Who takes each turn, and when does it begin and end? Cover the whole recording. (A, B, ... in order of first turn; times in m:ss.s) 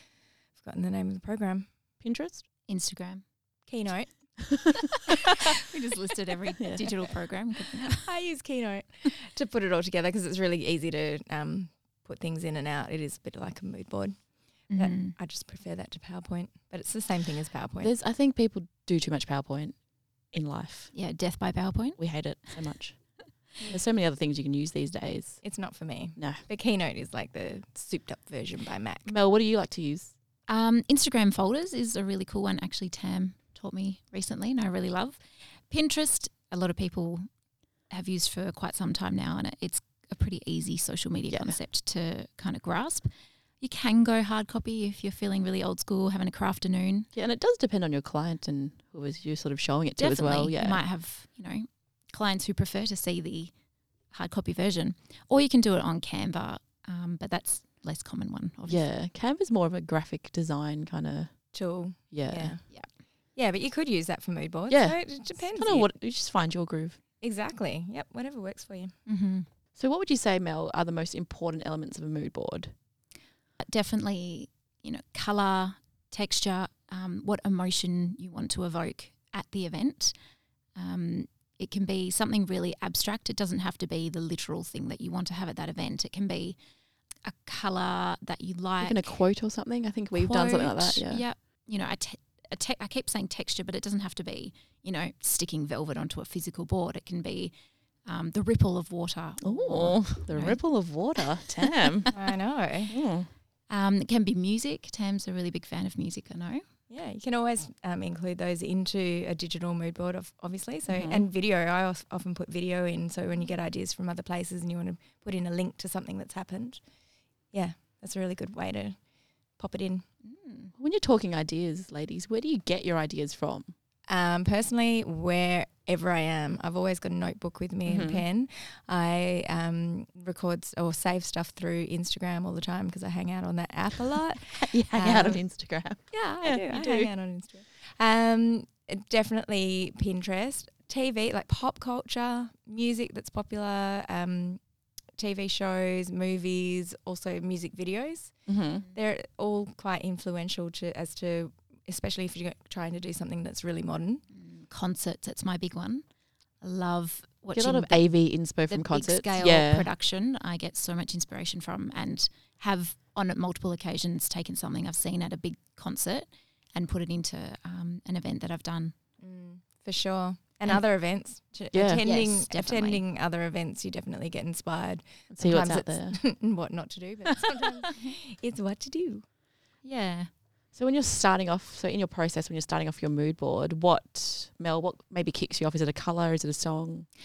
0:00.6-0:01.7 A
0:02.0-0:02.4 B
0:02.7-0:03.2 C
0:03.7-0:04.5 A
0:04.5-0:04.8 B
0:05.4-0:08.0 C
0:06.6-0:06.9 B
0:07.9-0:17.9 A
0:14.7-0:15.1 C
0:17.8-0:19.8 B
0:20.3-0:20.9 B
0:20.9-0:22.0 C
0:22.0-0:25.4 B
0:25.4-0:29.1 A
0:26.2-0:26.4 B
0:29.1-0:30.1 B
0:30.5-0:35.2 C
0:35.7-0:37.3 C
0:37.9-0:47.1 C
0:41.3-0:41.6 B
0:47.1-0:50.8 B
0:50.0-0:53.5 C
0:54.1-0:58.8 C
0:58.7-1:01.5 B
1:01.5-1:02.8 A
1:02.1-1:02.6 B
1:03.3-1:05.9 A
1:04.7-1:07.0 B
1:07.2-1:08.9 A
1:09.0-1:09.5 C
1:09.8-1:12.7 B
1:13.6-1:20.1 C
1:20.7-1:26.6 C
1:27.2-1:29.1 C
1:28.8-1:31.2 B
1:30.1-1:37.5 C
1:38.0-1:40.6 C
1:39.4-1:42.1 B
1:42.1-1:42.9 A
1:42.9-1:43.3 B
1:43.7-1:46.6 C
1:46.9-1:56.8 A
1:50.9-1:51.3 B
1:57.5-1:59.0 A
1:59.6-2:00.0 A
2:00.2-2:00.7 C
2:00.8-2:03.7 B
2:04.1-2:15.4 A
2:07.8-2:08.2 B
2:14.5-2:17.1 B
2:16.1-2:24.6 A
2:25.2-2:34.2 A
2:28.5-2:28.8 B
2:34.3-2:36.0 C
2:36.6-2:38.0 C
2:37.5-2:39.9 B
2:38.7-2:48.9 C
2:49.2-2:59.2 A
2:51.7-2:52.0 B
2:52.0-2:53.0 C
2:55.3-2:56.2 B
2:59.8-3:00.3 C
3:00.7-3:07.1 B